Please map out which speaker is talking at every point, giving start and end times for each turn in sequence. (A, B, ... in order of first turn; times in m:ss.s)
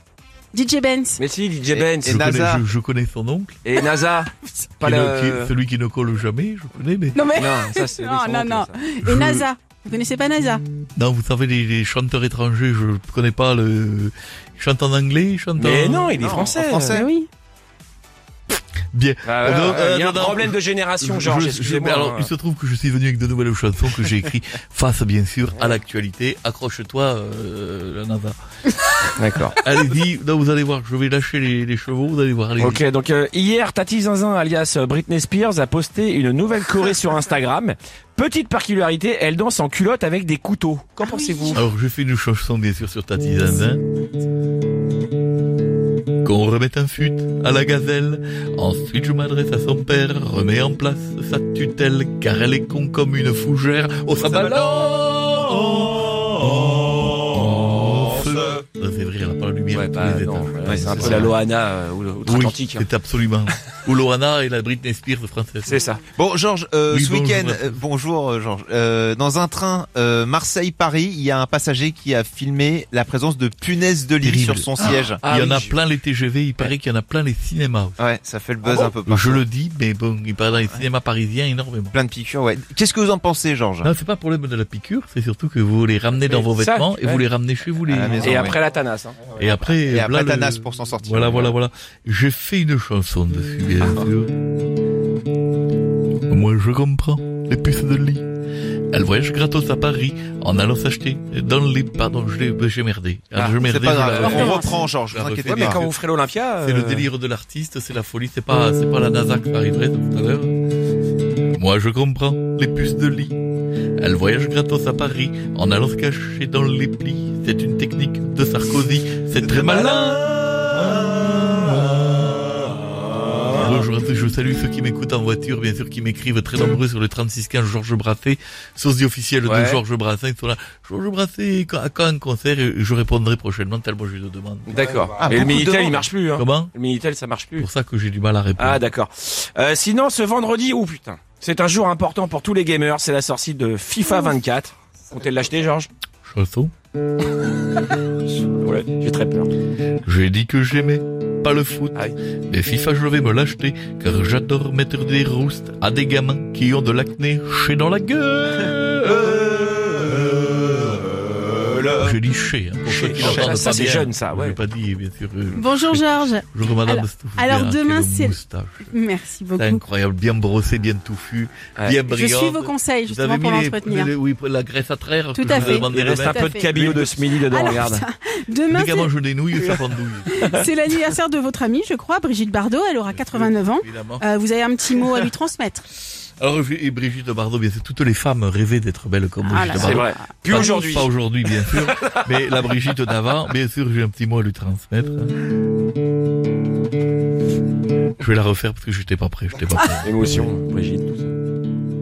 0:00.5-0:01.2 A
0:01.2-0:02.2 B
0:01.7-0:02.6 C
0:02.0-0:03.6 D
0:03.6-0:05.5 B
0:04.8-0:07.2 D
0:07.1-0:10.6 A
0:07.3-0:08.8 B
0:09.0-0:09.4 D
0:10.9-0:16.2 D
0:15.6-0:17.0 B
0:16.2-0:17.0 C
0:16.9-0:17.3 A
0:18.9-0:28.4 D
0:19.2-0:22.3 B
0:29.2-0:29.6 B
0:29.5-0:32.8 D
0:32.6-0:41.6 B
0:41.0-0:41.6 A
0:41.5-0:43.8 D
0:46.2-1:01.4 D
0:59.7-1:02.8 B
1:02.2-1:05.8 D
1:05.7-1:06.0 B
1:06.2-1:15.2 C
1:06.9-1:07.8 D
1:14.2-1:18.0 D
1:15.2-1:15.8 B
1:18.0-1:19.4 C
1:18.6-1:18.9 B
1:19.1-1:21.9 D
1:21.9-1:23.9 C
1:23.8-1:28.5 D
1:26.2-1:27.3 B
1:27.9-1:28.6 C
1:27.9-1:29.5 B
1:29.3-1:34.3 D
1:29.7-1:31.5 C
1:36.3-1:38.2 D
1:38.9-1:46.0 D
1:43.3-1:44.7 B
1:43.6-1:45.8 C
1:44.2-1:44.8 A
1:45.4-1:47.1 B
1:46.6-1:50.6 D
1:51.5-1:53.4 D
1:54.0-2:02.1 D
1:59.5-2:00.0 C
2:03.5-2:14.7 D
2:09.4-2:09.8 B
2:14.7-2:17.7 B
2:15.2-2:16.1 C
2:16.4-2:16.7 D
2:17.6-2:18.8 D
2:18.6-2:25.9 B
2:26.2-2:26.7 D
2:28.5-2:29.5 B
2:30.0-2:39.5 D
2:39.1-2:42.1 C
2:42.0-2:48.9 D
2:42.8-2:44.6 B
2:43.2-2:43.7 C
2:45.5-2:49.8 A
2:49.5-2:57.2 D
2:51.8-2:52.0 B
2:52.0-2:54.1 A
2:55.3-2:56.7 A
2:55.5-2:58.0 B
2:57.4-2:59.1 A
2:58.7-3:00.5 D
2:59.6-3:00.6 B
3:00.3-3:05.8 A
3:03.1-3:04.2 D
3:06.4-3:15.4 D
3:09.4-3:10.8 A
3:09.7-3:12.2 B
3:18.2-3:20.5 D
3:20.0-3:21.3 B